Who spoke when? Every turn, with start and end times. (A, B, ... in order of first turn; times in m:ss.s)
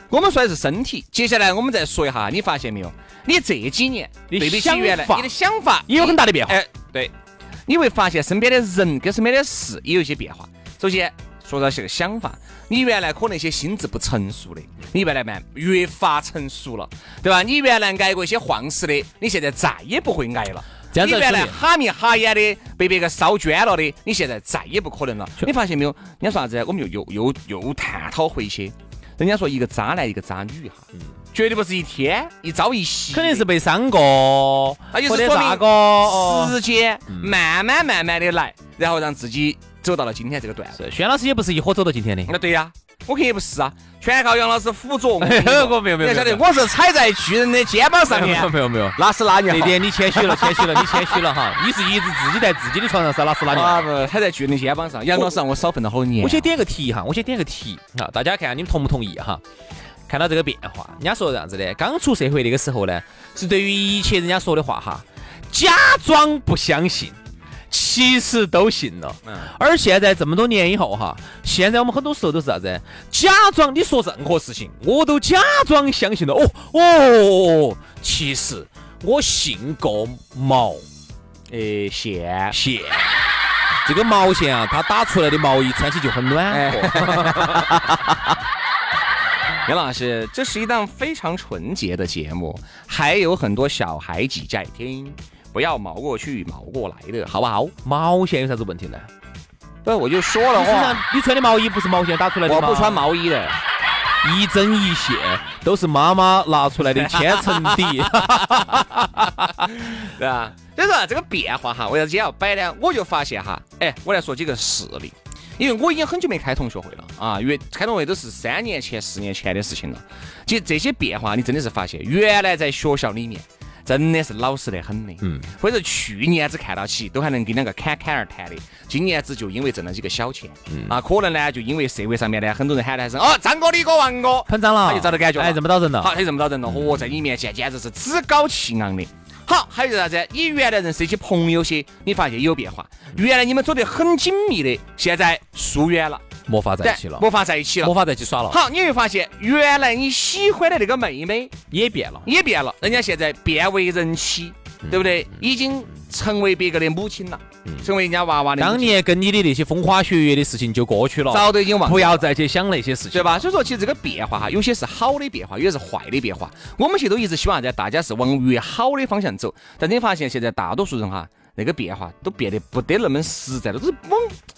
0:00.1-0:07.1 A
0:04.3-0:05.3 B
0:05.9-0:06.6 B
0:07.7-0:33.4 A
0:20.9-0:21.6 B
0:33.1-0:36.5 B
0:34.9-0:40.8 A
0:37.1-0:37.3 B
0:40.8-0:42.3 B
0:42.3-0:51.2 A
0:45.2-0:46.4 B
0:48.1-0:49.0 B
0:49.5-0:53.9 B
0:53.5-0:56.5 A
0:56.2-0:59.4 B
1:00.1-1:07.2 B
1:07.7-1:20.8 B
1:21.5-1:22.6 A
1:22.5-1:23.1 B
1:23.8-1:28.1 B
1:26.5-1:27.7 A
1:29.6-1:37.7 A
1:37.8-1:39.1 B
1:39.8-1:41.0 A
1:40.5-1:43.0 B
1:42.4-1:43.6 A
1:44.2-1:49.7 B
1:46.9-1:48.2 A
1:49.6-2:26.2 A
2:05.2-2:05.5 B
2:14.5-2:16.1 B
2:26.5-2:27.2 B
2:26.8-2:27.9 A
2:27.8-2:28.6 B
2:28.5-2:31.5 A
2:31.7-2:32.2 B
2:32.2-2:38.9 A
2:38.6-2:43.4 B
2:41.3-2:42.2 A
2:43.1-2:54.4 A